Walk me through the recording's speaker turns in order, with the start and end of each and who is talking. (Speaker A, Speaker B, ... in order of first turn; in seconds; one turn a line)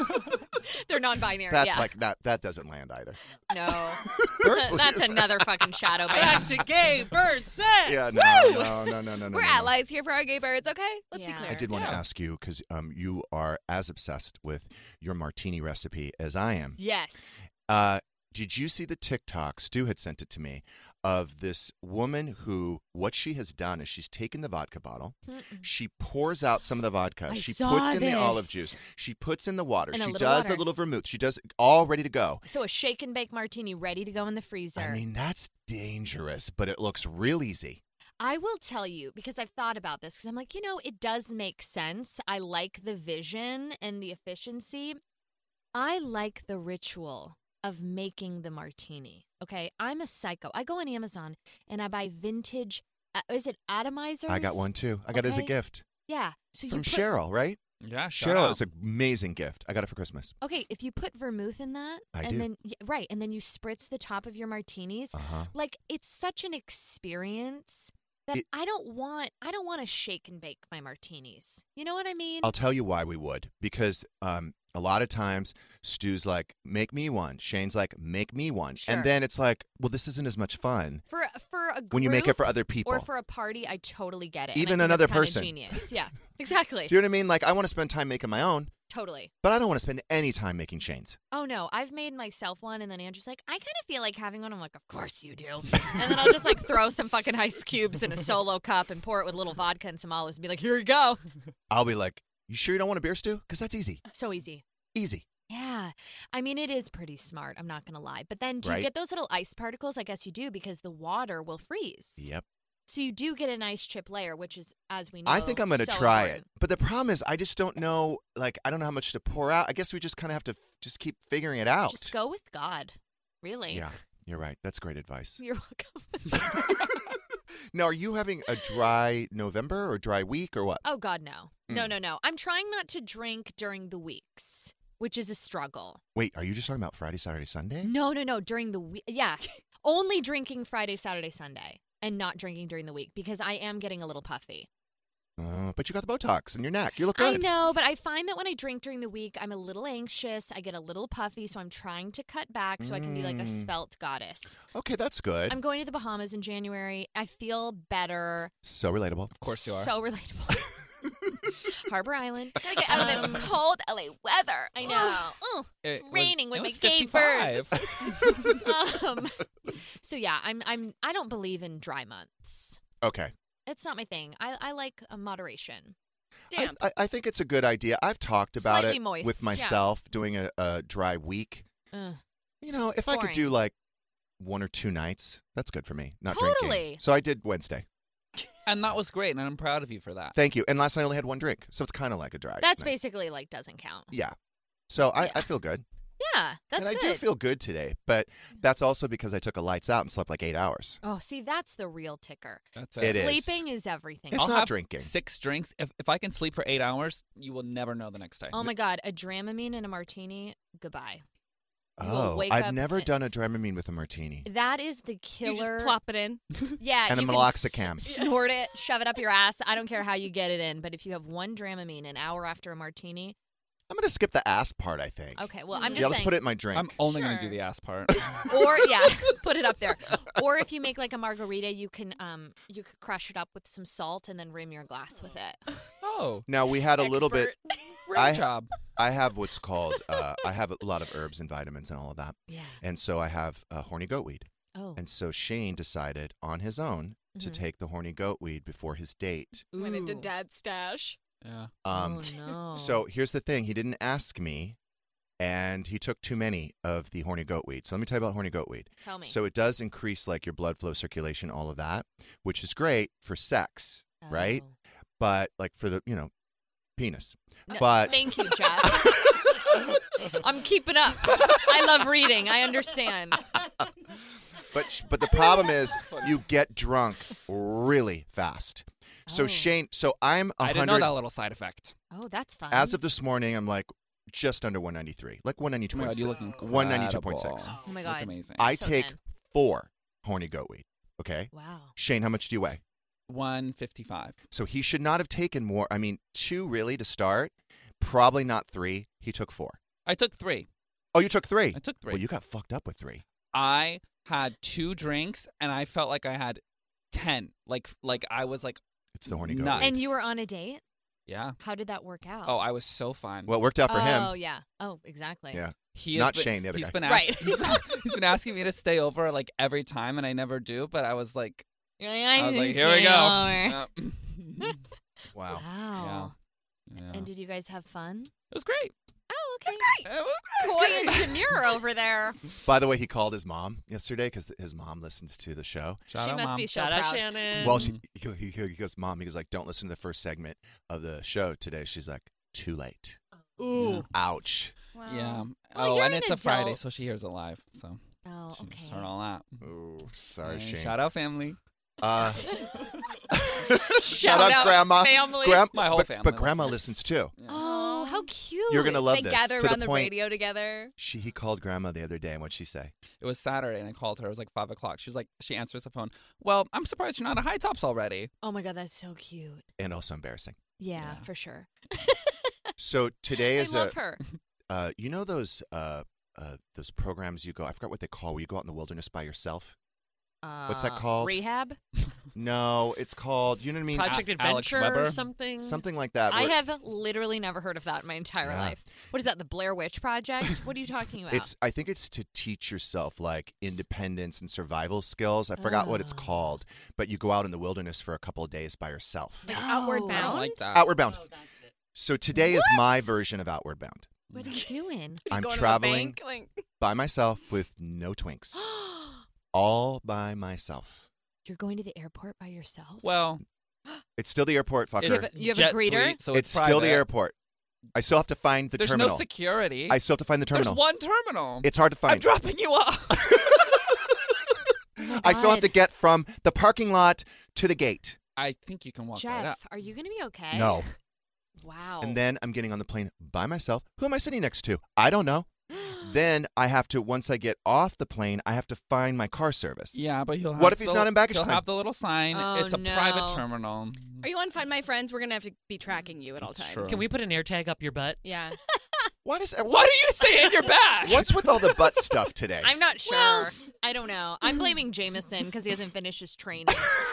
Speaker A: 0.6-1.9
Speaker B: 1.5-5.5
Speaker A: 3.5-6.4
Speaker C: 4.4-4.8
Speaker D: 6.1-8.1
Speaker B: 7.8-9.7
Speaker E: 8.1-11.7
Speaker A: 11.1-11.6
Speaker B: 11.5-16.8
Speaker C: 11.7-12.0
Speaker A: 16.8-17.4
Speaker B: 17.5-32.4
Speaker A: 25.3-25.7
Speaker A: 27.3-28.8
Speaker A: 29.9-30.7
Speaker A: 32.4-35.0
Speaker B: 34.8-37.8
Speaker A: 38.2-45.0
Speaker A: 45.7-55.5
Speaker B: 54.3-55.8
Speaker A: 56.0-57.1
Speaker B: 56.7-57.6
Speaker C: 57.8-58.6
Speaker B: 58.1-60.3
Speaker A: 60.4-72.5
Speaker B: 62.1-62.5
Speaker B: 65.1-65.5
Speaker B: 72.4-81.0
Speaker A: 78.8-79.1
Speaker A: 81.1-87.0
Speaker B: 81.9-83.1
Speaker B: 84.5-85.8
Speaker B: 86.9-88.7
Speaker A: 88.9-89.3
Speaker B: 89.4-91.2
Speaker A: 91.3-101.2
Speaker B: 101.7-104.0
Speaker A: 104.1-104.6
Speaker B: 104.9-105.2
Speaker A: 105.5-112.3
Speaker B: 108.6-108.9
Speaker B: 112.2-112.4
Speaker A: 112.9-116.4
Speaker B: 115.2-122.1
Speaker A: 121.9-123.9
Speaker B: 123.7-125.4
Speaker A: 125.4-126.5
Speaker B: 126.3-126.8
Speaker B: 127.7-130.8
Speaker A: 130.8-136.0
Speaker B: 131.7-131.9
Speaker B: 136.1-137.9
Speaker A: 137.8-144.7
Speaker B: 145.4-147.5
Speaker A: 147.1-154.6
Speaker B: 152.8-153.7
Speaker B: 154.7-155.6
Speaker A: 155.5-158.5
Speaker B: 158.6-159.3
Speaker C: 159.3-159.9
Speaker A: 159.4-160.7
Speaker A: 161.7-163.8
Speaker E: 162.6-165.2
Speaker C: 162.9-163.5
Speaker A: 164.6-169.4
Speaker C: 165.8-168.6
Speaker A: 170.0-172.8
Speaker B: 173.0-173.3
Speaker A: 173.7-175.9
Speaker E: 176.5-176.8
Speaker B: 176.5-181.7
Speaker A: 178.6-179.8
Speaker E: 179.5-179.8
Speaker A: 181.9-182.2
Speaker B: 182.6-183.7
Speaker A: 183.0-183.5
Speaker B: 184.4-187.8
Speaker A: 186.3-187.0
Speaker C: 188.7-190.3
Speaker B: 190.3-192.9
Speaker A: 192.6-194.1
Speaker B: 194.9-195.8
Speaker A: 195.2-195.4
Speaker A: 196.2-197.2
Speaker B: 196.8-201.0
Speaker A: 201.0-204.7
Speaker C: 202.8-203.3
Speaker B: 203.0-203.6
Speaker B: 204.3-205.1
Speaker C: 204.3-208.7
Speaker A: 208.5-211.2
Speaker B: 212.0-214.5
Speaker A: 212.0-213.1
Speaker A: 214.4-216.0
Speaker E: 215.4-216.4
Speaker A: 216.8-223.3
Speaker B: 217.1-218.2
Speaker B: 223.9-226.9
Speaker A: 225.3-226.4
Speaker E: 225.7-226.2
Speaker C: 226.7-228.5
Speaker E: 227.0-227.6
Speaker A: 228.5-235.6
Speaker C: 236.0-236.5
Speaker B: 236.5-237.5
Speaker E: 236.9-238.2
Speaker C: 238.1-238.7
Speaker B: 238.1-249.7
Speaker A: 242.5-242.8
Speaker A: 244.7-245.0
Speaker A: 247.3-247.6
Speaker A: 249.7-250.3
Speaker E: 249.8-251.2
Speaker C: 251.4-251.7
Speaker B: 251.8-254.8
Speaker A: 251.9-253.1
Speaker B: 255.4-264.6
Speaker A: 259.0-259.4
Speaker A: 264.2-264.7
Speaker B: 265.2-266.3
Speaker B: 267.0-268.4
Speaker A: 267.7-269.3
Speaker A: 270.2-273.5
Speaker B: 274.7-281.2
Speaker C: 276.0-276.3
Speaker A: 279.3-279.7
Speaker C: 280.6-281.9
Speaker A: 282.1-283.0
Speaker B: 282.7-287.7
Speaker C: 285.9-288.7
Speaker A: 287.8-289.2
Speaker B: 288.6-292.8
Speaker A: 291.5-291.9
Speaker C: 293.3-294.4
Speaker B: 294.5-299.8
Speaker C: 300.1-300.7
Speaker B: 301.1-303.2
Speaker C: 301.7-302.2
Speaker C: 303.5-310.1
Speaker B: 309.1-310.0
Speaker A: 309.8-310.8
Speaker C: 311.3-311.6
Speaker A: 311.6-312.6
Speaker C: 312.4-313.6
Speaker B: 313.5-314.4
Speaker A: 313.9-315.6
Speaker B: 315.5-317.0
Speaker C: 315.9-321.6
Speaker A: 317.0-317.8
Speaker A: 322.0-323.8
Speaker C: 322.3-324.8
Speaker B: 325.3-325.6
Speaker A: 325.5-326.3
Speaker C: 326.0-326.3
Speaker C: 326.9-327.3
Speaker A: 327.1-328.3
Speaker C: 328.5-328.9
Speaker A: 329.3-329.9
Speaker E: 329.6-330.1
Speaker C: 330.0-331.6
Speaker A: 330.6-332.4
Speaker B: 332.6-336.0
Speaker C: 336.1-336.7
Speaker A: 336.1-337.4
Speaker D: 336.7-337.8
Speaker C: 337.6-338.0
Speaker B: 337.6-343.2
Speaker C: 343.8-344.1
Speaker B: 343.8-344.7
Speaker E: 344.9-345.5
Speaker C: 345.1-348.0
Speaker A: 345.7-347.1
Speaker A: 348.2-349.1
Speaker C: 348.5-349.6
Speaker B: 349.6-351.0
Speaker C: 350.4-351.6
Speaker B: 352.0-352.6
Speaker B: 353.5-357.3
Speaker A: 354.0-355.4
Speaker E: 354.0-355.6
Speaker C: 355.6-356.8
Speaker C: 357.4-357.6
Speaker A: 357.5-359.3
Speaker E: 357.5-358.3
Speaker B: 358.7-360.1
Speaker E: 359.1-360.9
Speaker B: 361.0-362.9
Speaker C: 363.2-368.3
Speaker A: 368.4-369.6
Speaker B: 369.8-370.6
Speaker A: 370.8-372.5
Speaker C: 371.0-371.2
Speaker B: 372.8-374.0
Speaker A: 373.4-374.2
Speaker B: 374.7-379.7
Speaker A: 380.4-381.8
Speaker B: 380.7-381.4
Speaker B: 382.3-384.2
Speaker D: 383.9-385.8
Speaker C: 384.0-385.2
Speaker B: 385.6-386.6
Speaker A: 386.3-391.5
Speaker B: 388.4-388.8
Speaker B: 391.3-399.5
Speaker A: 395.6-396.5
Speaker E: 399.4-400.6
Speaker A: 399.5-400.5
Speaker C: 400.1-400.9
Speaker B: 400.7-401.2
Speaker B: 401.9-404.1
Speaker A: 402.4-403.0
Speaker C: 404.3-404.6
Speaker A: 404.3-405.2
Speaker E: 405.3-406.6
Speaker B: 405.3-406.2
Speaker B: 406.8-408.6
Speaker B: 409.5-411.1
Speaker A: 411.4-413.1
Speaker C: 413.0-413.4
Speaker B: 414.1-415.3
Speaker C: 415.0-417.1
Speaker A: 415.0-416.2
Speaker B: 416.3-417.3
Speaker B: 417.9-419.3
Speaker C: 418.8-420.0
Speaker B: 419.9-420.8
Speaker C: 420.5-423.6
Speaker B: 421.6-422.3
Speaker B: 423.1-423.7
Speaker A: 425.0-425.8
Speaker B: 425.0-428.2
Speaker C: 428.4-429.6
Speaker A: 429.1-430.9
Speaker B: 430.5-430.9
Speaker A: 431.6-432.2
Speaker B: 432.0-440.0
Speaker A: 435.7-436.1
Speaker C: 439.9-444.2
Speaker B: 440.5-441.6
Speaker A: 442.3-443.4
Speaker E: 444.2-447.0
Speaker C: 446.4-447.1
Speaker D: 446.9-448.2
Speaker E: 448.2-448.6
Speaker B: 449.2-449.9
Speaker C: 449.6-451.4
Speaker B: 451.0-452.7
Speaker A: 452.6-457.0
Speaker E: 453.0-453.6